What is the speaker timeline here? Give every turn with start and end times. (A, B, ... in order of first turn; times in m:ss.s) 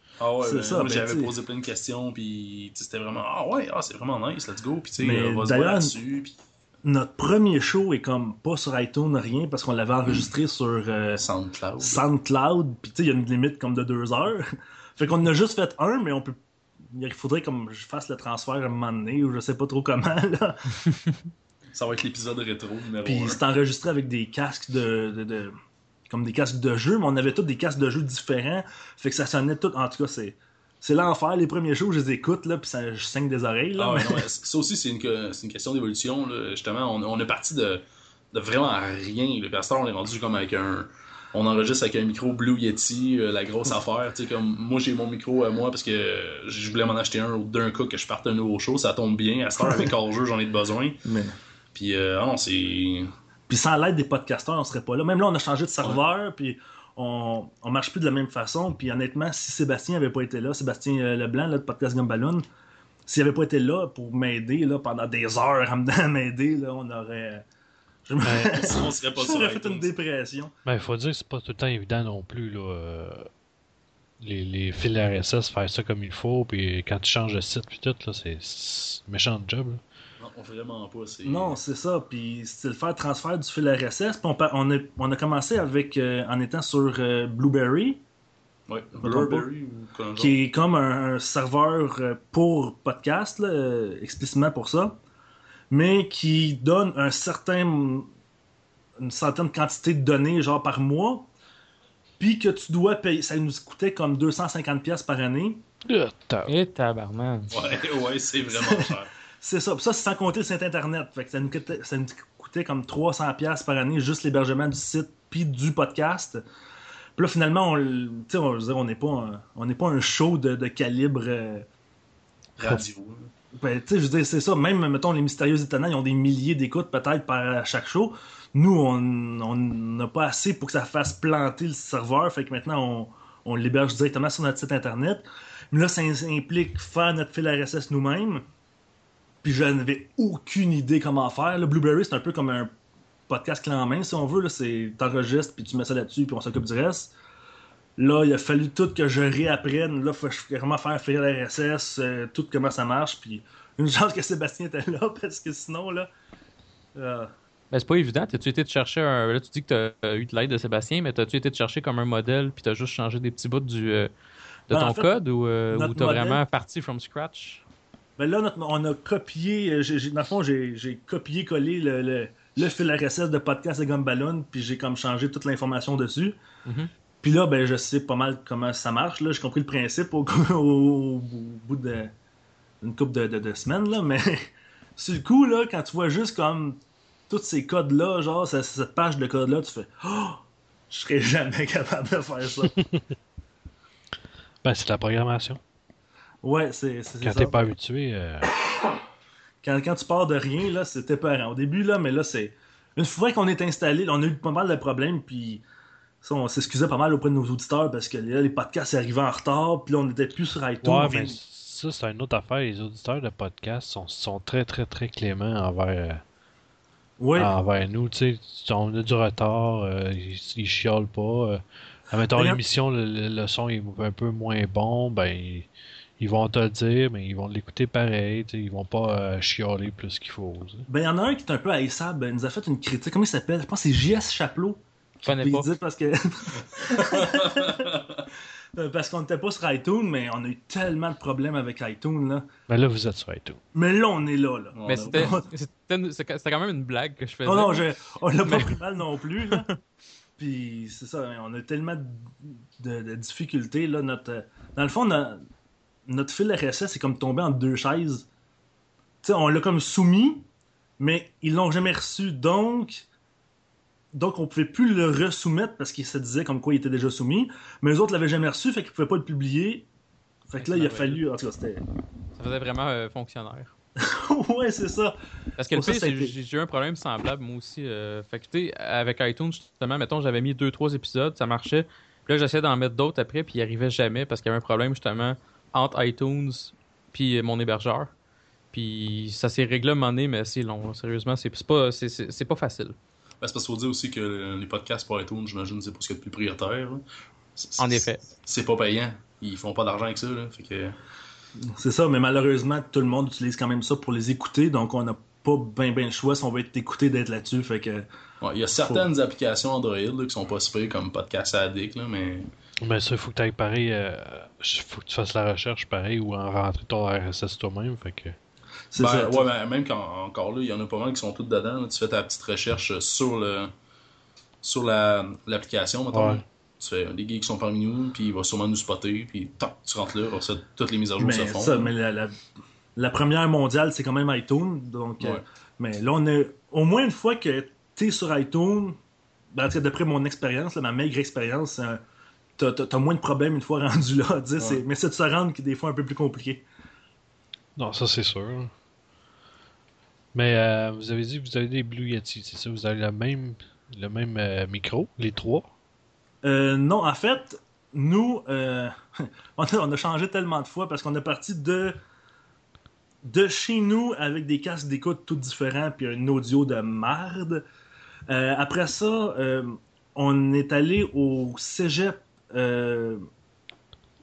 0:00.2-0:06.3 A
0:00.4-0:01.3 B
0:05.0-0:05.9 B
0:06.8-0:11.2 B
0:11.2-0:12.0 A
0:11.8-0:20.7 B
0:21.7-0:23.4 A
0:23.0-0:25.6 B
0:26.1-0:34.2 B
0:33.8-0:51.0 A
0:49.6-0:49.9 B
0:51.0-0:51.4 B
0:51.7-0:53.1 A
0:53.5-1:02.4 B
1:03.1-1:07.4 B
1:08.0-1:10.5 B
1:08.2-1:08.7 C
1:08.5-1:09.9 A
1:10.6-1:13.3 C
1:14.2-1:19.8 C
1:20.2-1:21.6 A
1:21.2-1:28.0 B
1:28.7-1:30.4 A
1:29.0-1:29.5 B
1:30.2-1:35.0 B
1:35.7-1:38.1 B
1:39.0-1:41.3 B
1:42.2-1:45.6 B
1:45.8-1:46.5 C
1:46.5-1:47.5 D
1:47.5-1:49.1 A
1:48.5-1:56.4 B
1:57.2-2:01.7 B
2:02.6-2:03.3 A
2:03.6-2:18.4 B
2:19.4-2:22.7 B
2:23.3-2:27.1 B
2:28.0-2:36.1 B
2:37.0-2:37.3 B
2:37.7-2:44.1 D
2:44.7-2:47.6 D
2:44.7-2:45.1 B
2:45.7-2:46.4 B
2:48.2-2:56.4 B
2:57.2-3:02.1 B
3:02.8-3:12.8 B
3:14.6-3:15.6 C
3:16.4-3:17.7 B
3:17.2-3:18.5 C
3:19.6-3:25.6 B
3:26.2-3:31.4 B
3:30.8-3:36.2 C
3:37.2-3:37.5 B
3:37.4-3:45.7 C
3:42.3-3:42.6 B
3:46.2-3:50.8 C
3:50.9-3:57.9 B
3:55.2-3:55.7 D
3:57.0-3:58.2 A
3:58.7-4:02.5 B
4:02.7-4:03.6 C
4:03.7-4:05.4 B
4:04.7-4:05.4 A
4:04.9-4:07.8 D
4:07.4-4:09.7 B
4:08.4-4:08.8 D
4:10.4-4:15.4 B
4:16.1-4:18.3 B
4:19.2-4:20.4 B
4:21.0-4:23.1 B
4:24.1-4:29.9 B
4:30.5-4:31.8 B
4:30.6-4:31.2 D
4:32.4-4:33.7 D
4:34.0-4:35.2 B
4:35.6-4:48.1 D
4:35.7-4:36.3 B
4:48.7-4:53.0 D
4:53.4-4:57.0 A
4:57.6-5:01.0 A
4:57.8-4:58.2 D
5:01.7-5:08.1 B
5:08.4-5:12.5 A
5:12.8-5:18.4 C
5:18.9-5:19.4 B
5:19.0-5:23.7 A
5:24.6-5:31.9 A
5:26.1-5:26.4 C
5:31.2-5:32.4 B
5:33.0-5:39.0 B
5:39.5-5:42.0 B
5:42.6-5:46.6 B
5:47.8-5:48.7 C
5:50.3-5:55.7 C
5:56.4-6:02.0 B
6:03.2-6:07.6 B
6:08.3-6:13.2 B